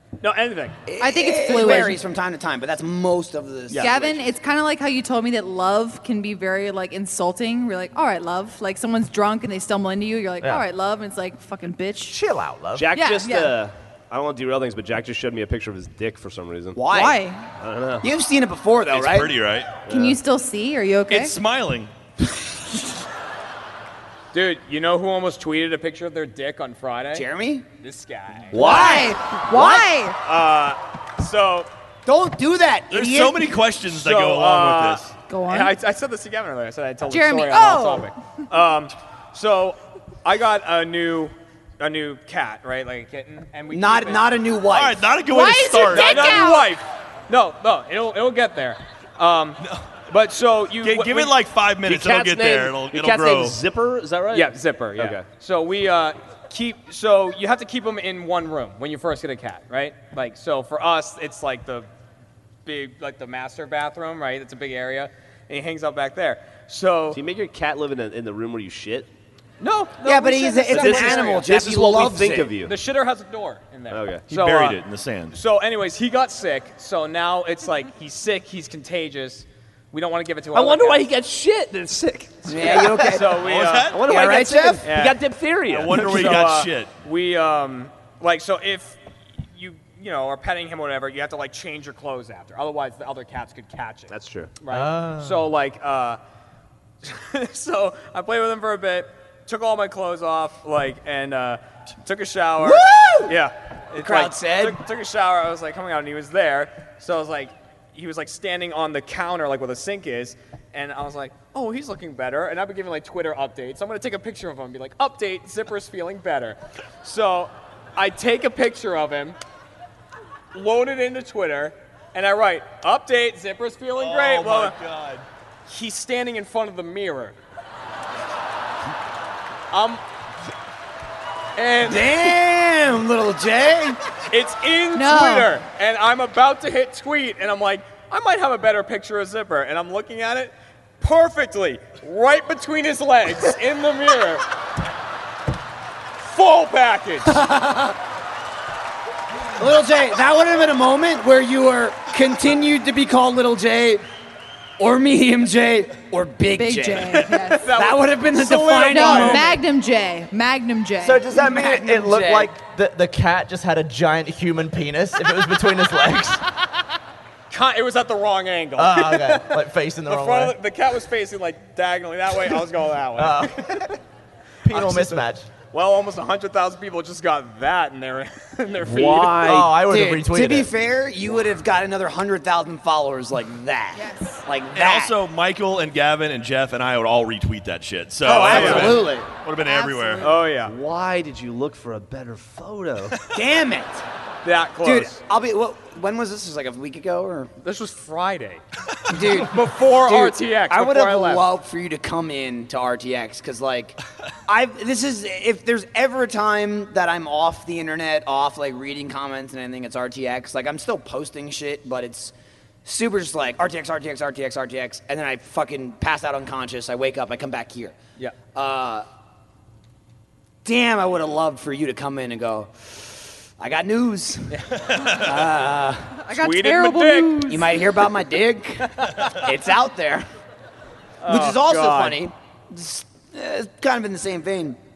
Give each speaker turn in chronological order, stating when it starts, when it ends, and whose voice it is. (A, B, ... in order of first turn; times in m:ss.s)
0:00.2-0:00.8 A
0:00.9-0:04.3 B
0:01.0-0:02.0 C
0:03.7-0:12.2 C
0:12.1-0:12.9 D
0:12.8-0:16.8 E
0:12.9-0:13.6 C
0:16.8-0:17.2 B
0:16.9-0:17.4 C
0:17.6-0:18.1 E
0:18.0-0:19.4 B
0:18.9-0:19.8 F
0:19.9-0:20.2 E
0:19.9-0:21.4 C
0:21.1-0:21.9 F
0:24.3-0:27.3 A
0:27.1-0:27.7 B
0:27.8-0:29.0 A
0:28.5-0:29.1 E
0:28.5-0:29.9 B
0:28.5-0:30.2 C
0:30.2-0:31.7 A
0:32.1-0:33.6 B
0:32.9-0:35.1 F
0:33.9-0:44.2 A
0:35.3-0:35.8 C
0:37.1-0:38.1 C
0:43.7-0:45.1 B
0:44.7-0:46.5 F
0:45.3-0:46.7 C
0:45.8-0:51.4 A
0:50.8-0:53.6 F
0:51.8-0:55.3 E
0:54.3-1:01.9 A
1:02.6-1:07.2 A
1:07.1-1:09.1 E
1:09.6-1:11.6 A
1:10.0-1:12.5 B
1:10.7-1:12.7 E
1:12.1-1:14.8 A
1:13.9-1:14.3 E
1:14.3-1:15.4 F
1:15.3-1:21.1 A
1:20.5-1:23.0 E
1:22.5-1:23.4 B
1:22.5-1:36.2 A
1:23.3-1:24.3 F
1:23.9-1:26.6 E
1:24.0-1:24.9 B
1:25.7-1:26.9 F
1:34.1-1:34.5 E
1:34.7-1:35.5 D
1:37.0-1:59.4 A
1:42.6-1:43.4 B
1:44.0-1:44.8 B
2:00.5-2:04.8 A
2:04.0-2:05.2 F
2:05.7-2:07.4 A
2:09.7-2:10.0 A
2:11.6-2:12.4 A
2:11.8-2:14.0 B
2:14.3-2:24.4 A
2:15.0-2:15.5 C
2:26.2-2:27.4 A
2:27.3-2:28.0 B
2:29.6-2:34.0 B
2:34.8-2:39.6 B
2:36.6-2:37.7 C
2:37.6-2:39.6 A
2:38.9-2:41.2 C
2:41.0-2:46.4 D
2:41.3-2:42.5 B
2:47.5-2:53.8 A
2:48.8-2:50.6 D
2:53.2-2:54.0 D
2:54.6-2:55.5 D
2:54.7-2:59.6 A
2:58.8-2:59.8 E
2:59.4-3:00.7 D
2:59.8-3:05.2 B
3:04.7-3:10.3 F
3:08.2-3:09.3 B
3:08.3-3:09.1 A
3:09.6-3:10.3 C
3:10.2-3:10.8 A
3:10.6-3:13.2 E
3:13.3-3:14.0 B
3:14.4-3:15.2 A
3:14.8-3:17.5 B
3:17.6-3:18.6 A
3:19.1-3:32.3 B
3:19.2-3:21.4 A
3:32.8-3:39.1 B
3:40.6-3:46.2 B
3:46.3-3:47.7 C
3:46.3-3:47.6 A
3:47.5-3:50.3 B
3:51.2-3:52.2 A
3:51.3-3:54.8 B